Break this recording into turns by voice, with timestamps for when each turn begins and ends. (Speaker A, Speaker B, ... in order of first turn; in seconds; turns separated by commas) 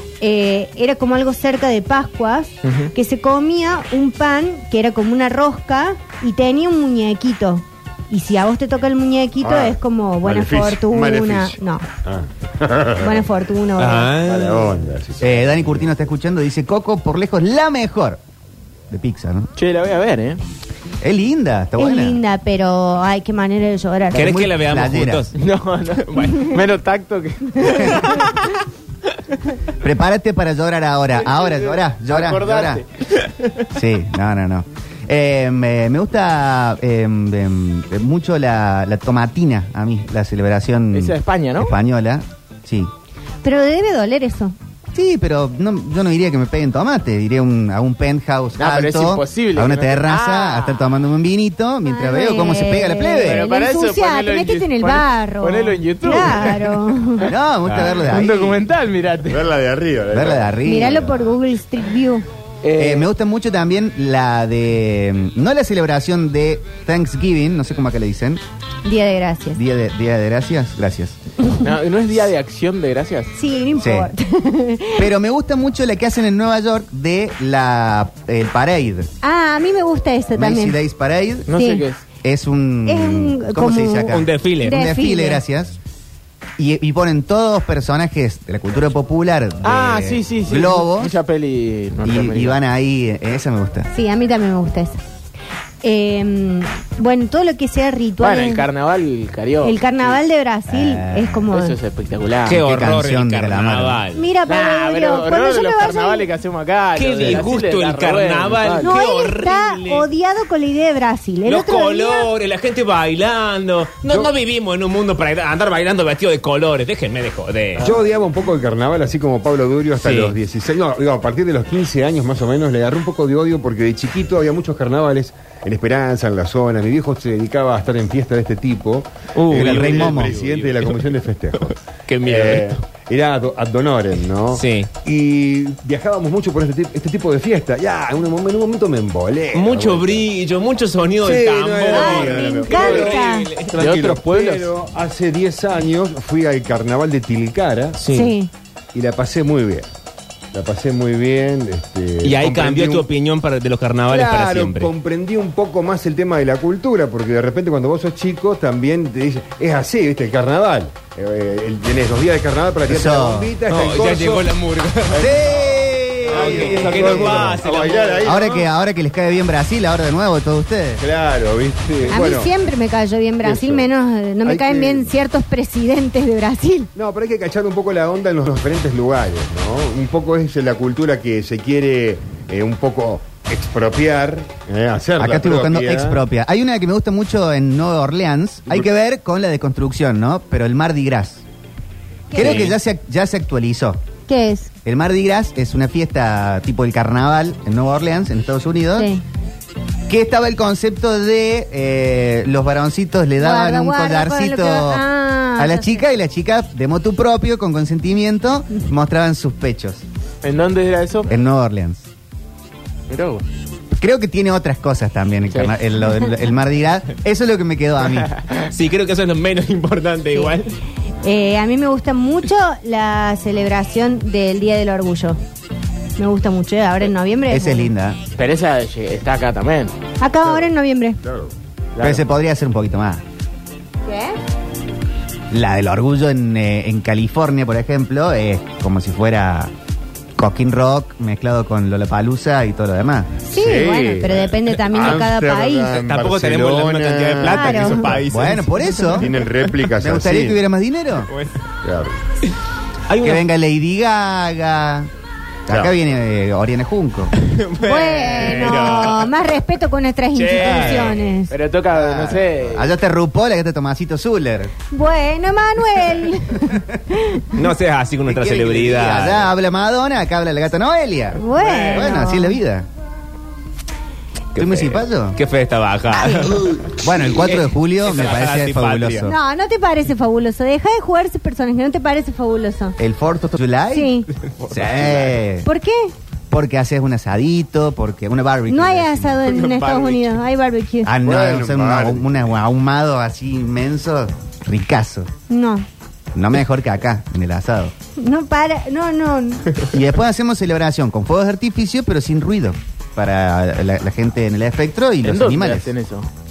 Speaker A: 0.2-11.8, Speaker B: 2.6-2.9, Speaker C: 9.4-13.2, Speaker A: 13.0-14.1, Speaker D: 13.8-14.8, Speaker C: 14.2-15.8, Speaker E: 15.2-18.2, Speaker E: 18.9-19.5, Speaker B: 19.6-20.4, Speaker E: 21.0-22.2, Speaker A: 21.8-24.4, Speaker D: 24.1-25.3, Speaker E: 24.1-25.3, Speaker B: 25.3-28.4, Speaker A: 27.7-28.4, Speaker E: 29.8-32.8, Speaker B: 31.2-32.9, Speaker E: 33.7-42.9, Speaker B: 40.9-41.8, Speaker A: 43.4-44.5, Speaker E: 44.9-53.4, Speaker B: 48.6-50.9, Speaker A: 51.9-57.3, Speaker B: 53.2-56.9, Speaker E: 57.2-58.6, Speaker B: 57.8-59.5, Speaker C: 59.3-60.6, Speaker E: 60.1-61.3, Speaker A: 60.6-62.2, Speaker B: 62.6-63.1, Speaker E: 62.8-68.4, Speaker A: 68.8-69.6, Speaker E: 69.5-71.2, Speaker B: 71.6-73.3, Speaker A: 73.3-75.1, Speaker E: 73.8-74.1, Speaker E: 74.9-79.1, Speaker A: 79.2-80.8, Speaker E: 80.3-81.5, Speaker B: 81.5-82.0, Speaker A: 81.5-81.8, Speaker E: 82.2-85.8, Speaker A: 82.8-85.4, Speaker D: 84.1-84.8, Speaker E: 86.6-91.1, Speaker B: 89.6-92.6, Speaker E: 92.0-93.9, Speaker A: 93.9-95.0, Speaker A: 95.8-98.7, Speaker B: 98.2-100.2, Speaker A: 99.6-101.8, Speaker E: 100.7-101.4, Speaker B: 101.5-102.6, Speaker D: 102.5-104.2, Speaker E: 102.6-104.0, Speaker A: 104.1-106.3, Speaker B: 104.5-108.9, Speaker D: 107.0-110.1, Speaker A: 108.8-112.3, Speaker D: 111.5-117.9, Speaker C: 114.1-114.3, Speaker C: 117.8-140.2, Speaker D: 120.0-120.3, Speaker D: 129.3-131.1, Speaker E: 129.5-130.3, Speaker D: 132.1-132.8, Speaker D: 134.5-134.9, Speaker D: 139.5-143.8, Speaker C: 141.2-148.0, Speaker A: 141.9-143.5, Speaker B: 143.8-144.7, Speaker D: 148.0-148.3, Speaker A: 148.1-148.5, Speaker C: 148.9-149.9, Speaker C: 150.5-153.1, Speaker D: 152.2-154.9, Speaker C: 154.1-164.5, Speaker E: 162.9-163.5, Speaker D: 163.7-165.4, Speaker C: 165.1-165.4, Speaker E: 165.1-167.5, Speaker C: 166.2-168.7, Speaker D: 166.3-168.5, Speaker E: 168.2-171.0, Speaker C: 171.0-172.5, Speaker A: 172.1-176.9, Speaker C: 173.4-173.9, Speaker C: 174.4-175.1, Speaker C: 176.9-186.2, Speaker E: 185.2-191.4, Speaker A: 192.3-192.6, Speaker E: 192.3-194.0, Speaker D: 192.4-192.7, Speaker A: 194.3-194.7, Speaker E: 194.8-199.1, Speaker A: 198.9-199.2, Speaker E: 200.1-210.0, Speaker A: 203.4-206.0, Speaker B: 210.4-211.3, Speaker E: 211.3-212.0, Speaker B: 213.1-213.4, Speaker E: 213.9-218.3, Speaker B: 215.5-215.8, Speaker D: 218.7-220.7, Speaker A: 221.2-225.4, Speaker A: 226.2-227.9, Speaker E: 227.5-228.2, Speaker B: 228.3-229.9, Speaker A: 230.2-231.2, Speaker C: 231.2-231.5, Speaker B: 231.9-232.2, Speaker E: 232.0-233.2, Speaker A: 234.0-234.4, Speaker E: 235.5-239.7, Speaker E: 240.4-243.3, Speaker A: 243.5-246.0, Speaker C: 243.5-248.3, Speaker D: 245.9-249.2, Speaker A: 247.4-248.2, Speaker E: 248.3-249.3, Speaker C: 249.1-250.6, Speaker E: 249.9-251.3, Speaker D: 251.3-251.6, Speaker C: 251.8-252.2, Speaker D: 253.1-253.4, Speaker E: 253.2-255.1, Speaker E: 255.7-257.3, Speaker D: 257.4-259.3, Speaker A: 257.8-261.5, Speaker D: 260.3-261.3, Speaker B: 261.5-262.9, Speaker E: 261.9-264.7, Speaker A: 264.9-267.6, Speaker D: 267.5-269.5, Speaker E: 268.2-272.9, Speaker A: 271.3-272.6, Speaker D: 271.6-272.1, Speaker D: 274.5-279.3, Speaker E: 274.6-275.4, Speaker A: 276.1-276.6, Speaker E: 277.0-279.3, Speaker A: 279.2-282.9, Speaker E: 283.0-285.7, Speaker A: 283.9-284.3, Speaker D: 284.7-285.2, Speaker A: 285.6-286.1, Speaker E: 286.5-289.4, Speaker A: 288.7-291.1, Speaker D: 289.4-290.4, Speaker E: 291.0-295.3, Speaker C: 291.2-292.3, Speaker A: 295.5-295.9, Speaker E: 296.3-297.9, Speaker A: 298.2-299.7, Speaker E: 299.9-305.9, Speaker B: 305.2-306.3